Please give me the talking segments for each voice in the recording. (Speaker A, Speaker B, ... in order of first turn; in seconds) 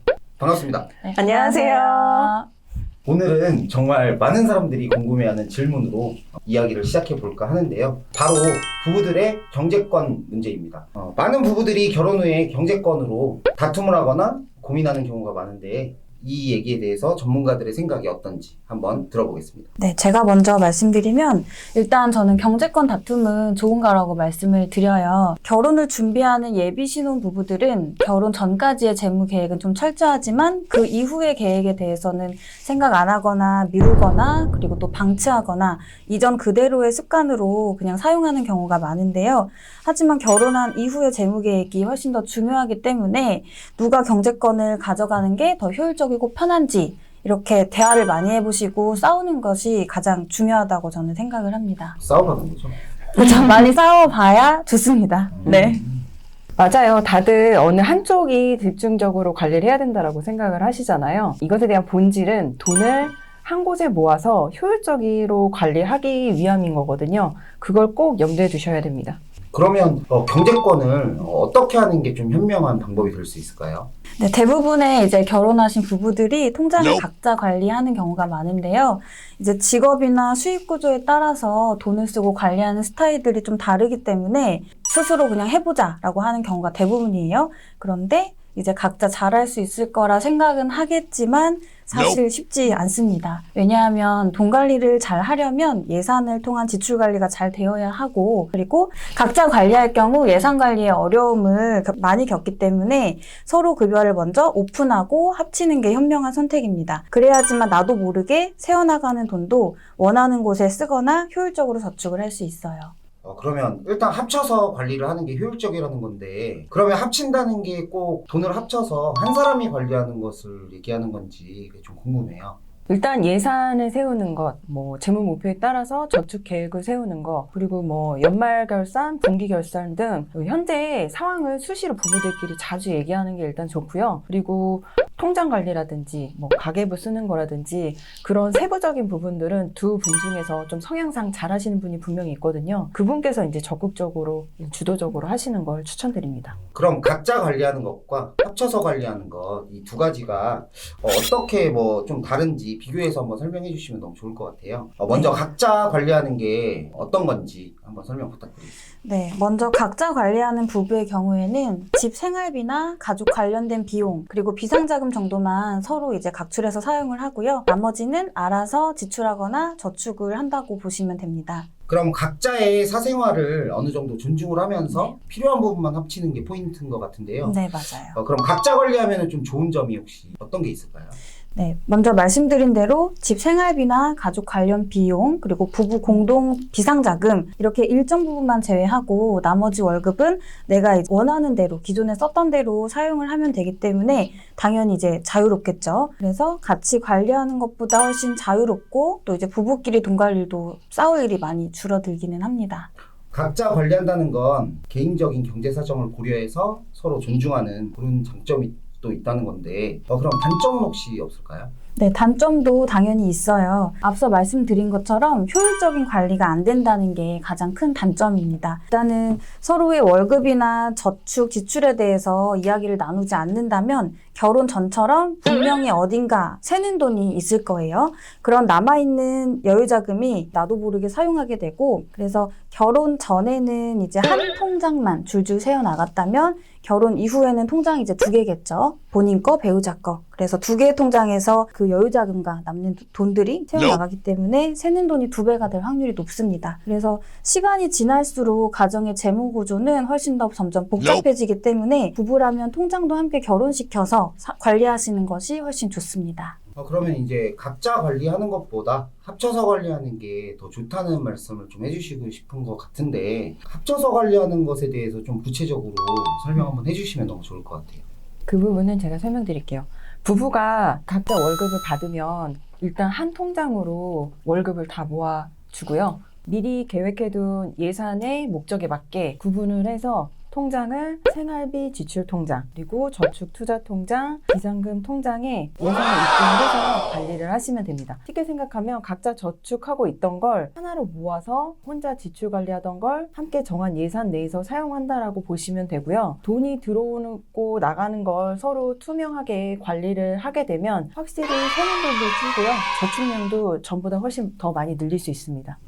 Speaker A: 0.4-0.9, 3.0-19.7, 52.0-52.7, 55.4-56.0, 69.5-73.9, 113.2-122.6, 146.7-158.7, 171.9-181.2, 203.3-211.7, 256.8-268.0
Speaker B: 1.0-2.5, 19.8-52.0, 53.1-55.8, 74.2-112.9, 155.1-155.4, 159.0-171.7, 177.4-178.2, 181.5-202.9, 211.9-256.6
Speaker C: 1.1-2.3, 55.5-55.7, 56.6-69.2, 122.9-146.6, 268.5-305.8